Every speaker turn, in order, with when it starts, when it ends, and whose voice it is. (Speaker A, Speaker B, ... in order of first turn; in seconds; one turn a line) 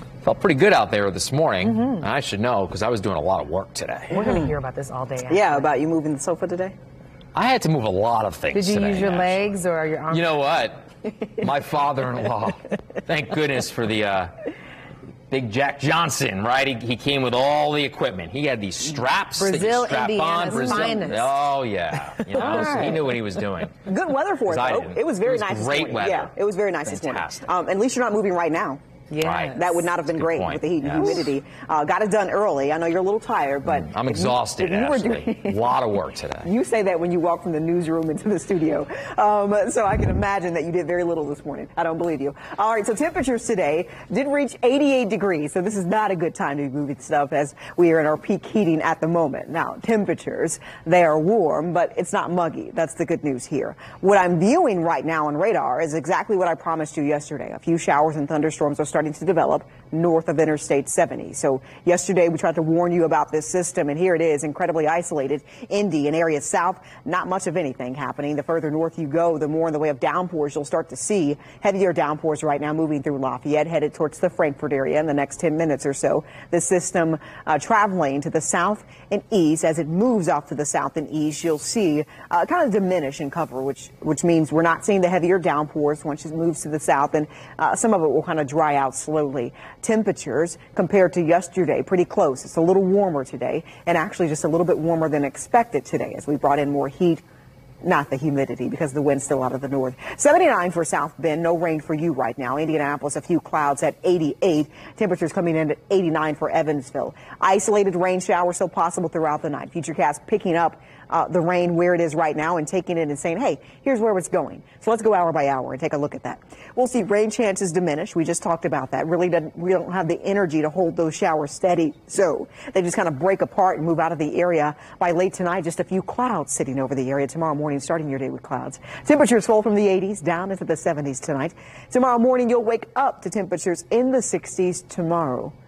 Speaker A: 0.2-4.3
Speaker B: 1.6-2.1
Speaker C: 4.1-5.7
Speaker B: 4.2-4.5
Speaker B: 5.2-6.7
Speaker A: 7.3-9.5
Speaker C: 8.5-10.5
Speaker A: 10.1-14.3
Speaker A: 15.3-23.8
Speaker C: 19.4-21.3
Speaker B: 20.4-21.0
Speaker B: 22.3-23.2
Speaker C: 22.6-22.9
Speaker B: 23.9-28.8
Speaker A: 24.4-26.3
Speaker A: 26.8-27.5
Speaker C: 29.1-29.8
Speaker A: 29.2-31.3
Speaker B: 29.4-97.2
Speaker A: 33.6-36.5
Speaker B: 97.8-135.5